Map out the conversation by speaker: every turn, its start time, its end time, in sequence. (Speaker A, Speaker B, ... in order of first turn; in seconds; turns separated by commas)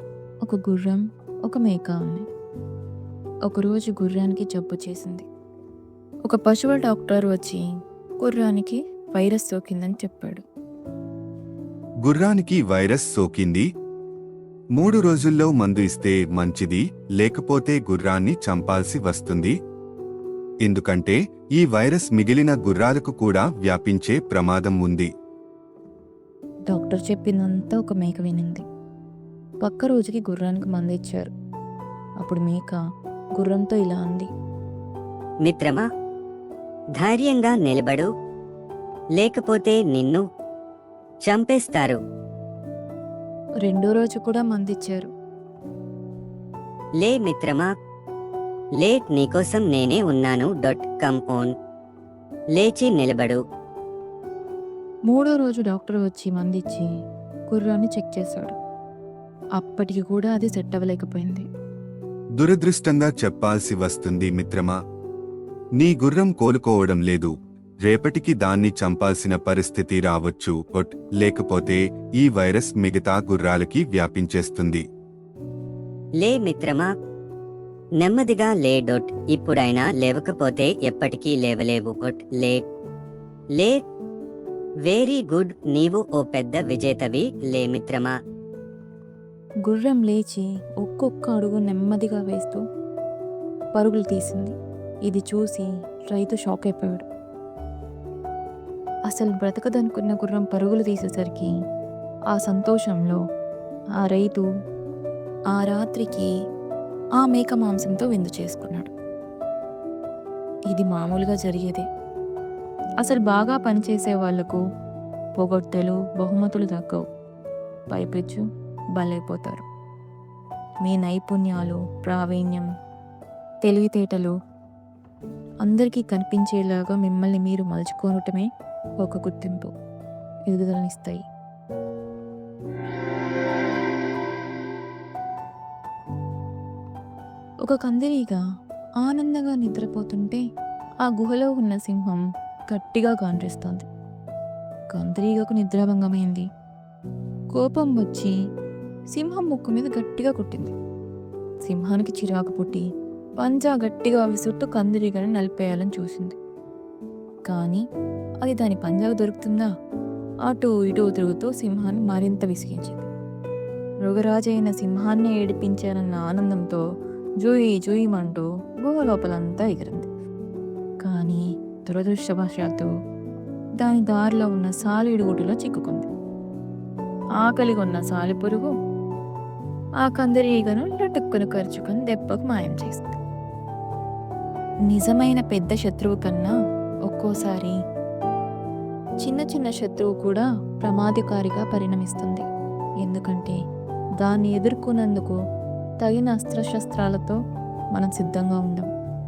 Speaker A: 0.4-2.2, Speaker A: 3.5-5.2, Speaker A: 6.3-7.6, Speaker A: 8.2-10.4, Speaker B: 12.0-13.7, Speaker B: 14.8-19.5, Speaker B: 20.6-25.1, Speaker A: 26.7-28.6, Speaker A: 29.6-31.3, Speaker A: 32.2-32.8, Speaker A: 33.4-34.3, Speaker C: 35.4-35.9, Speaker C: 37.0-38.1, Speaker C: 39.2-40.2, Speaker C: 41.2-42.0, Speaker A: 43.6-45.1, Speaker C: 47.0-47.7, Speaker C: 48.8-51.5, Speaker C: 52.5-53.4, Speaker A: 55.1-56.9, Speaker A: 57.5-58.5, Speaker A: 59.6-61.5, Speaker B: 62.4-64.8, Speaker B: 65.8-67.3, Speaker B: 67.8-74.8, Speaker C: 76.2-76.9, Speaker C: 78.0-82.6, Speaker C: 84.8-88.1, Speaker A: 89.6-92.6, Speaker A: 93.7-94.5, Speaker A: 95.0-97.0, Speaker A: 99.1-101.5, Speaker A: 102.3-103.2, Speaker A: 104.0-104.4, Speaker A: 105.5-106.3, Speaker A: 107.2-108.9, Speaker A: 110.7-111.8, Speaker A: 113.0-114.6, Speaker A: 115.4-117.0, Speaker A: 117.9-118.4, Speaker A: 119.0-119.6, Speaker A: 120.8-122.7, Speaker A: 123.6-124.3, Speaker A: 125.6-128.5, Speaker A: 129.0-129.7, Speaker A: 130.5-131.2, Speaker A: 137.6-138.4, Speaker A: 139.0-140.4, Speaker A: 141.0-143.8, Speaker A: 144.9-146.4, Speaker A: 147.5-148.3, Speaker A: 149.1-150.7, Speaker A: 151.6-152.8, Speaker A: 153.4-156.3, Speaker A: 157.4-157.8, Speaker A: 158.4-159.7, Speaker A: 160.5-163.1, Speaker A: 164.0-166.8, Speaker A: 167.4-170.1, Speaker A: 171.0-172.9, Speaker A: 173.8-176.1, Speaker A: 177.4-178.7, Speaker A: 180.0-183.2, Speaker A: 184.9-186.5, Speaker A: 187.1-187.8, Speaker A: 189.2-192.5, Speaker A: 193.0-193.6, Speaker A: 194.2-195.4, Speaker A: 196.0-197.4, Speaker A: 197.9-198.9